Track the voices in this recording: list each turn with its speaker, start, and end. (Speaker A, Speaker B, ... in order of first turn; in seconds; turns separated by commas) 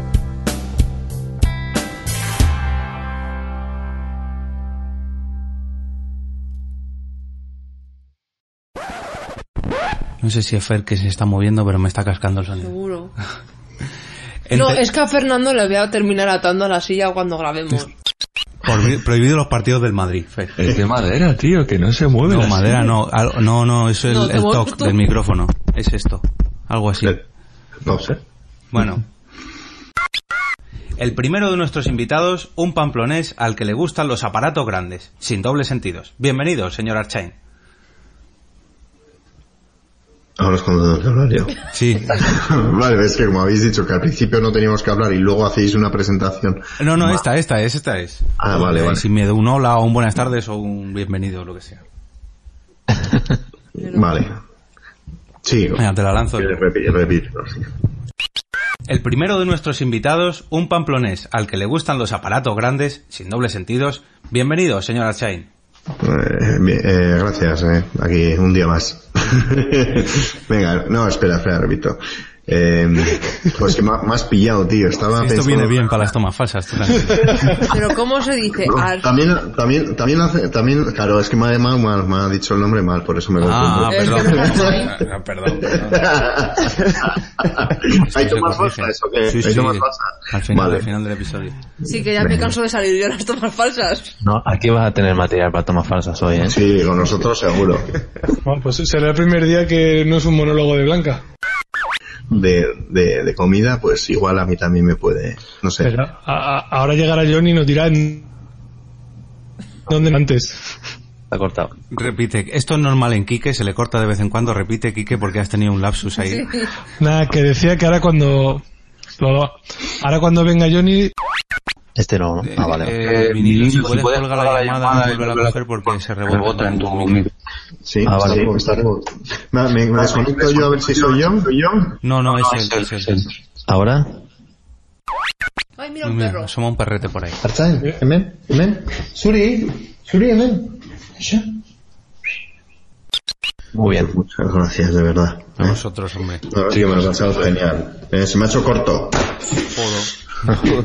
Speaker A: 10.2-12.7, Speaker B: 12.6-13.1, Speaker A: 14.5-14.8, Speaker B: 14.5-17.9, Speaker A: 18.6-20.6, Speaker C: 20.6-22.9, Speaker A: 22.3-27.2, Speaker B: 24.1-25.0, Speaker D: 27.9-28.1, Speaker C: 27.9-28.2, Speaker A: 28.7-29.1, Speaker A: 31.0-37.3, Speaker D: 40.4-41.6, Speaker A: 41.7-42.2, Speaker D: 42.1-47.2, Speaker A: 46.8-51.8, Speaker D: 48.4-49.0, Speaker D: 53.8-54.4, Speaker D: 55.4-55.8, Speaker A: 55.8-56.6, Speaker D: 56.4-57.7, Speaker A: 58.9-65.5, Speaker D: 66.0-76.1, Speaker A: 75.2-77.5, Speaker E: 77.3-77.6, Speaker B: 77.6-79.1, Speaker D: 78.6-84.9, Speaker A: 83.4-86.1, Speaker B: 83.9-84.9, Speaker D: 85.5-90.9, Speaker A: 87.9-91.6, Speaker B: 91.9-94.1, Speaker D: 92.2-92.5, Speaker F: 94.2-96.6, Speaker D: 96.5-98.0, Speaker E: 98.5-101.2, Speaker D: 102.3-105.9, Speaker E: 105.8-108.3, Speaker E: 109.9-110.6, Speaker F: 111.3-111.7, Speaker A: 111.9-116.5, Speaker B: 116.2-116.7, Speaker E: 117.0-118.6, Speaker E: 119.2-121.1, Speaker F: 122.0-123.0, Speaker A: 122.4-127.3, Speaker C: 123.6-124.0, Speaker D: 127.8-132.0, Speaker F: 128.0-128.6, Speaker A: 132.0-133.2, Speaker F: 133.7-134.1, Speaker B: 135.8-136.5, Speaker A: 136.0-137.4, Speaker D: 137.4-141.4, Speaker F: 143.7-144.1, Speaker D: 143.9-145.8, Speaker A: 145.6-146.4, Speaker D: 146.5-149.4, Speaker C: 146.7-147.2, Speaker A: 149.7-150.1